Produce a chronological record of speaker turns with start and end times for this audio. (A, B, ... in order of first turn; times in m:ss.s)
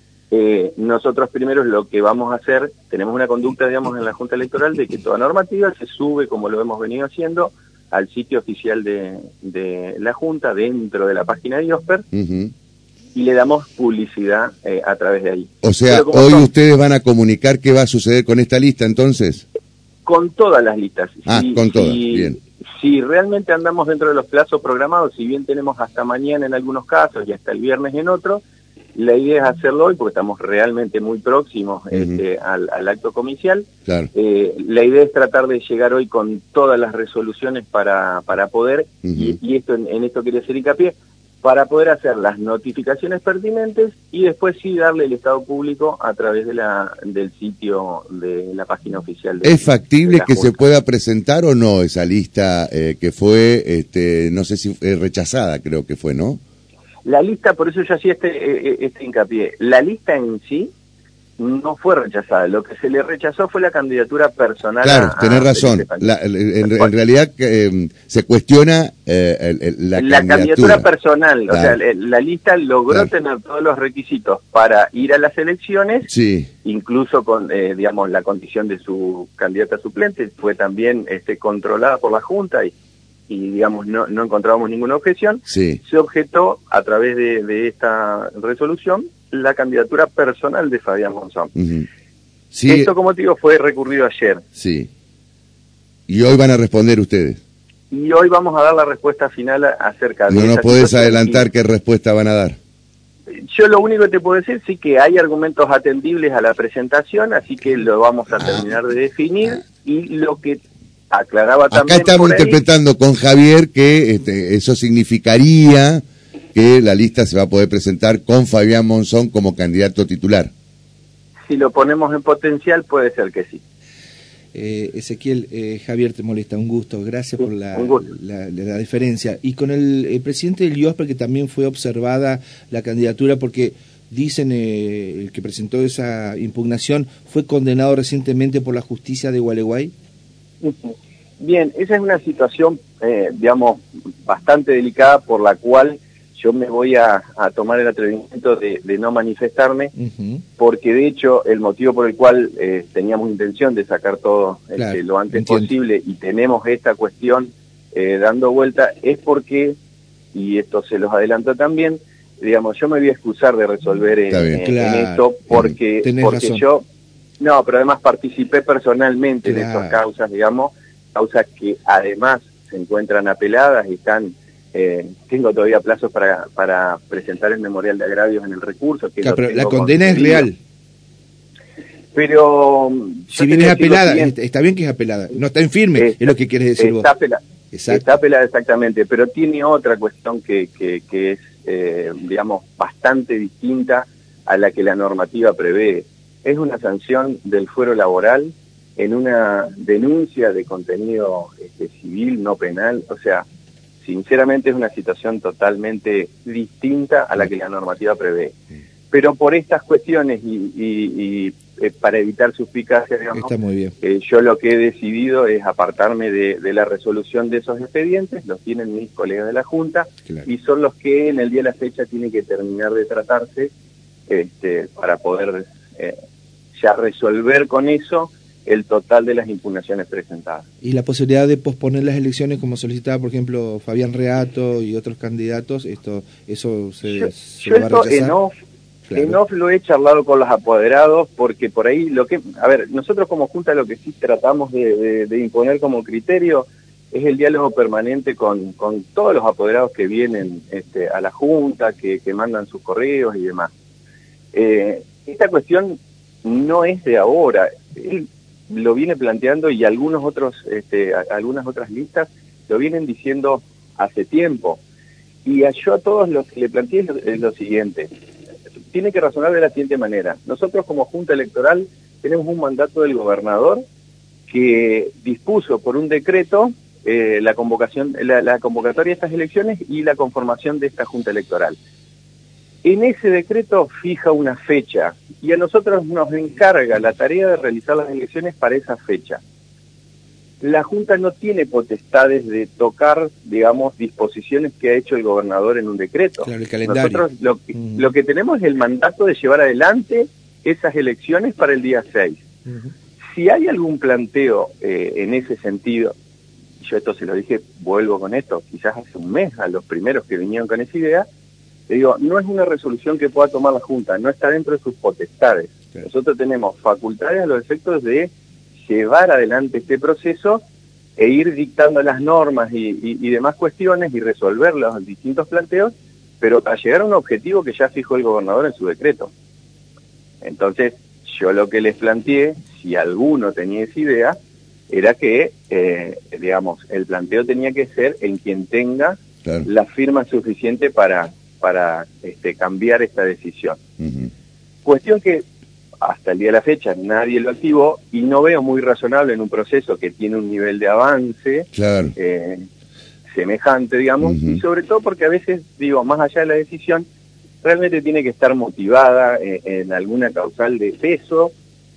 0:00.3-0:12.0 A
0:12.1-0:12.5 B
0:13.1-0:16.5 A
0:15.6-0:19.4 B
0:20.0-0:28.4 A
0:21.2-0:22.4 B
0:28.9-0:50.6 A
0:39.0-0:39.4 B
0:49.4-0:56.4 B
0:57.0-1:00.7 A
1:01.4-1:06.1 A
1:04.8-1:10.8 B
1:06.6-1:06.9 A
1:10.0-1:16.1 A
1:11.5-1:11.8 B
1:16.1-1:16.5 B
1:16.6-1:22.7 A
1:23.3-1:31.5 A
1:25.5-1:25.8 B
1:31.6-1:31.8 B
1:32.5-1:32.9 B
1:32.7-1:34.4 A
1:34.6-1:34.9 B
1:36.1-1:37.4 B
1:37.9-1:41.4 A
1:40.3-1:42.6 B
1:43.4-1:50.6 A
1:51.1-1:52.6 A
1:51.7-2:00.5 B
2:01.5-2:03.6 A
2:04.5-2:19.9 C
2:07.7-2:08.0 A
2:20.6-2:29.9 A
2:30.0-2:30.4 C
2:30.6-2:39.8 A
2:34.8-2:35.7 C
2:40.3-2:46.8 A
2:44.3-2:44.6 B
2:44.6-2:45.3 C
2:46.0-2:46.6 C
2:47.4-3:00.5 A
2:49.4-2:50.0 C
2:59.2-3:00.6 C
3:02.1-3:04.3 A
3:03.3-3:07.0 C
3:06.8-3:23.4 A
3:07.7-3:08.0 C
3:24.0-3:28.5 A
3:29.1-3:43.7 A
3:33.3-3:33.9 C
3:44.3-3:46.1 A
3:46.8-3:50.6 A
3:50.8-3:58.4 C
3:57.0-3:58.5 A
3:59.1-3:59.4 C
3:59.1-4:13.7 A
4:14.5-4:24.8 A
4:25.4-4:28.1 A
4:28.9-4:33.8 A
4:34.5-4:41.8 A
4:42.8-4:49.4 A
4:50.6-5:02.4 A
4:56.4-4:57.2 C
4:57.8-4:58.0 C
5:03.3-5:06.1 A
5:06.8-5:11.3 A
5:11.9-5:18.3 A
5:18.8-5:20.6 A
5:21.2-5:29.3 A
5:30.4-5:34.4 A
5:34.9-5:43.8 A
5:44.0-5:44.3 B
5:44.8-5:45.4 A
5:46.0-5:52.6 A
5:51.7-5:52.1 B
5:53.3-5:57.0 A
5:54.2-5:54.6 B
5:57.6-6:01.5 A